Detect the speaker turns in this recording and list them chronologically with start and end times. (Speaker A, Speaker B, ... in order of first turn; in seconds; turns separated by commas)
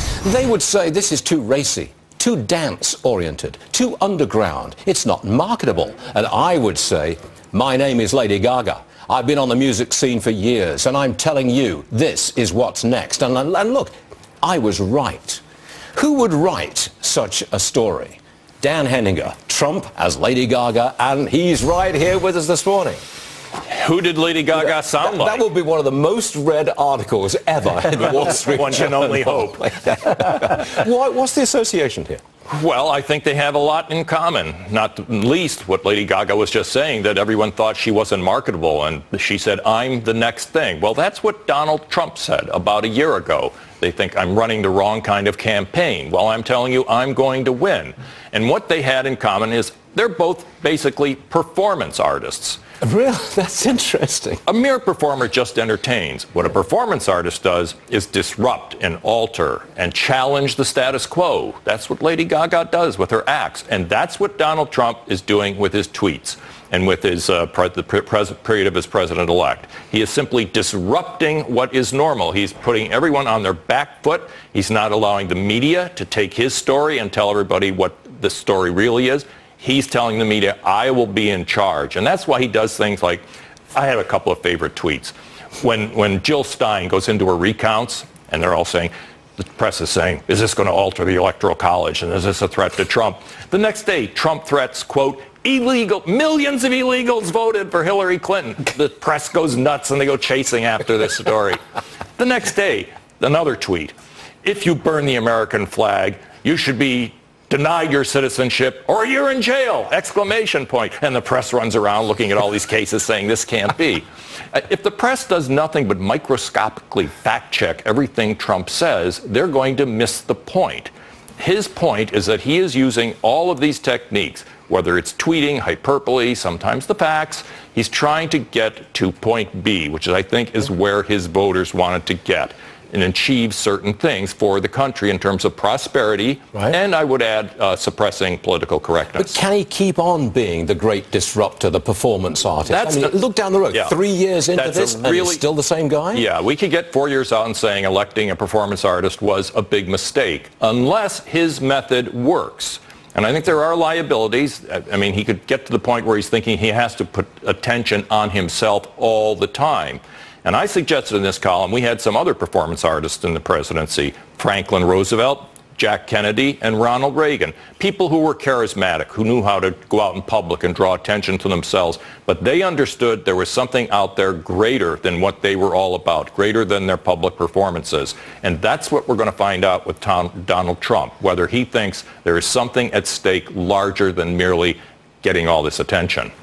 Speaker A: 0.2-15.4, Speaker A: 15.9-23.0, Speaker B: 23.6-25.4, Speaker A: 24.8-32.2, Speaker B: 28.0-29.8, Speaker B: 32.5-52.6, Speaker A: 52.8-54.4, Speaker B: 54.5-101.6, Speaker B: 102.2-139.4, Speaker A: 139.2-146.2, Speaker B: 142.7-143.2, Speaker B: 144.6-145.4, Speaker B: 146.1-186.3